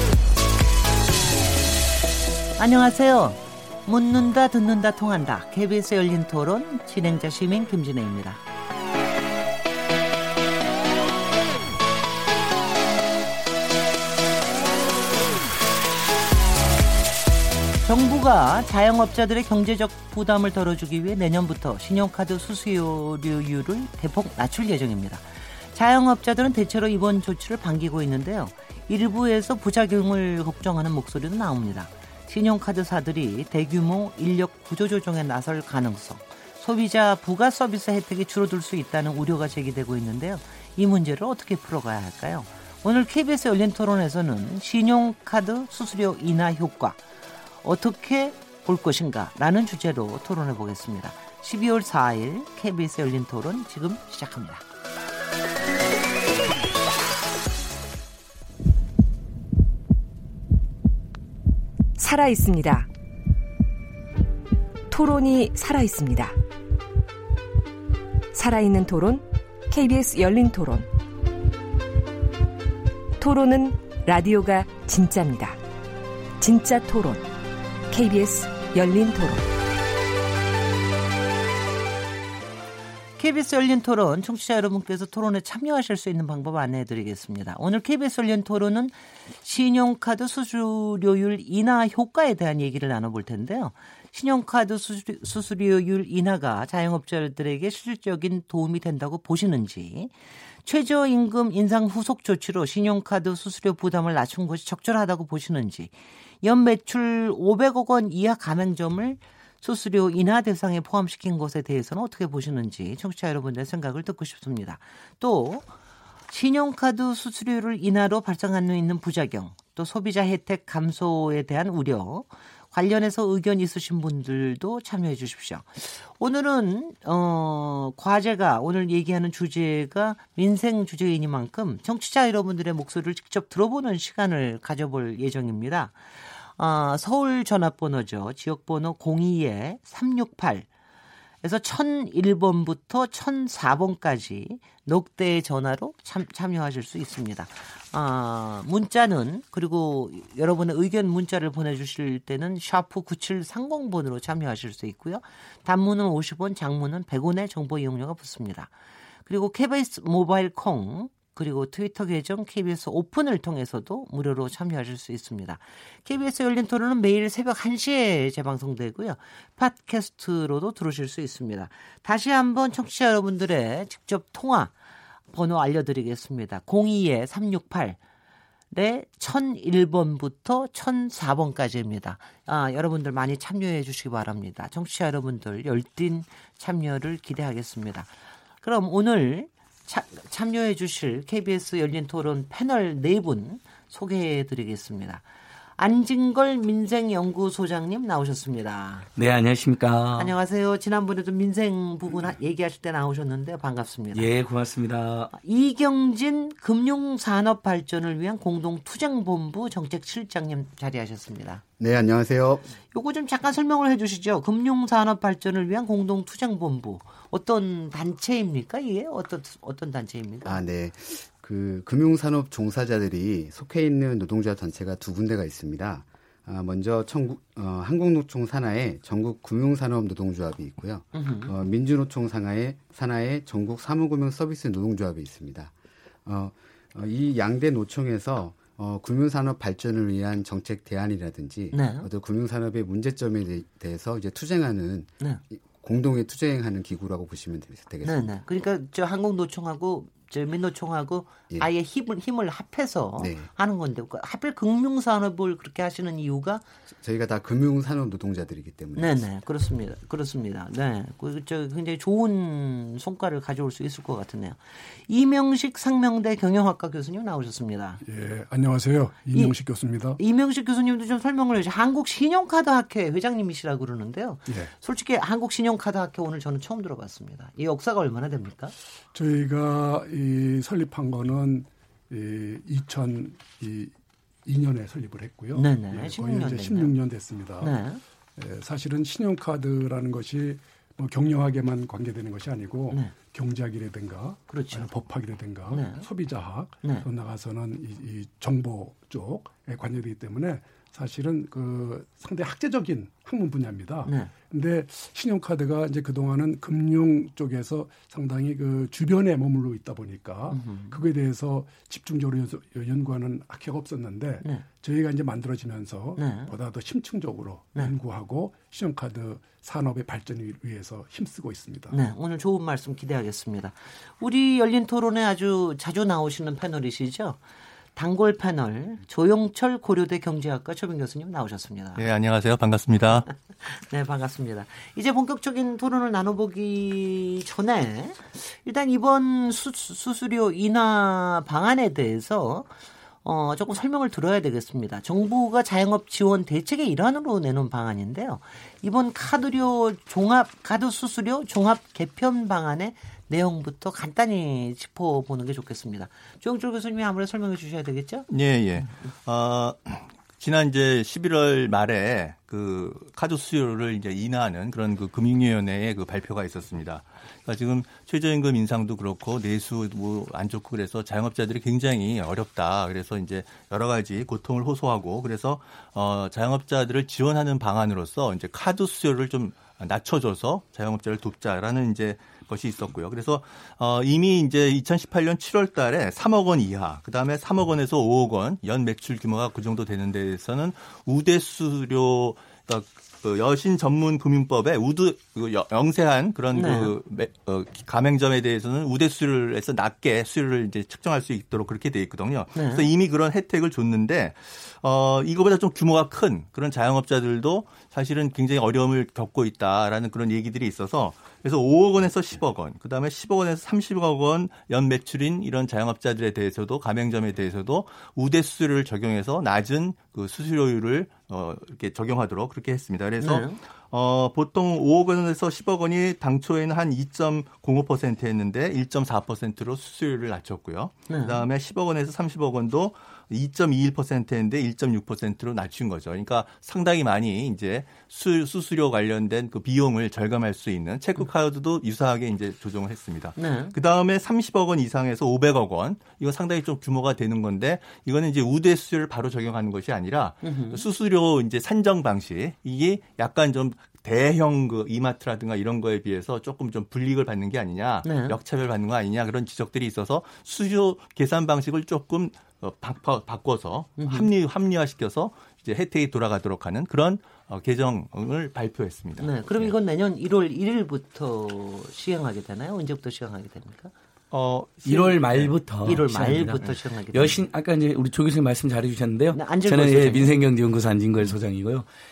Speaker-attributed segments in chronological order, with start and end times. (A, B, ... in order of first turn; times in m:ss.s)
0:02.6-0:08.4 A
0:17.8-0:47.0 A
0:47.6-0:54.6 A
1:02.0-1:02.9 B
1:04.9-1:06.3 B
1:08.3-1:10.9 B
1:13.2-1:15.6 B
1:16.4-1:17.3 B
1:17.9-1:19.4 B
1:23.2-1:55.7 A
1:56.3-2:20.7 A
2:21.4-2:38.7 A
2:39.2-2:54.7 A
2:55.3-2:58.0 A
2:58.7-3:08.1 A
3:08.6-3:15.2 A
3:15.8-3:19.1 A
3:19.2-3:20.3 C
3:20.2-3:24.3 A
3:24.1-3:25.3 C
3:25.3-3:31.6 A
3:31.8-3:32.7 D
3:32.9-3:40.6 A
3:40.4-3:55.7 D
3:51.1-3:51.6 A
3:56.2-4:08.3 D
4:01.7-4:02.1 A
4:08.0-4:16.6 A
4:13.2-4:13.5 D
4:17.0-4:19.2 D
4:19.0-4:28.0 A
4:28.0-4:30.2 E
4:30.2-4:38.7 A
4:34.5-4:34.7 E
4:39.1-4:43.9 E
4:44.4-4:47.8 E
4:45.5-4:46.9 A
4:47.6-4:48.0 A
4:48.4-5:22.0 E
4:54.5-4:54.9 A
4:55.7-4:56.1 A
5:04.0-5:04.3 A
5:10.5-5:11.0 A
5:16.2-5:16.5 A
5:21.9-5:27.4 A
5:27.9-5:32.0 A
5:31.9-5:33.3 F
5:33.6-5:42.7 A
5:43.2-5:58.3 A
5:58.3-7:49.7 F
6:36.5-6:36.9 A
6:42.5-6:42.8 A
7:03.2-7:03.6 A
7:11.1-7:11.4 A
7:23.4-7:23.7 A
7:30.4-7:30.8 A
7:38.0-7:38.4 A
7:44.0-7:44.3 A
7:49.2-7:53.9 A
7:54.3-7:55.5 F
7:54.8-8:01.9 C
7:55.8-7:57.4 A
7:59.3-8:00.4 A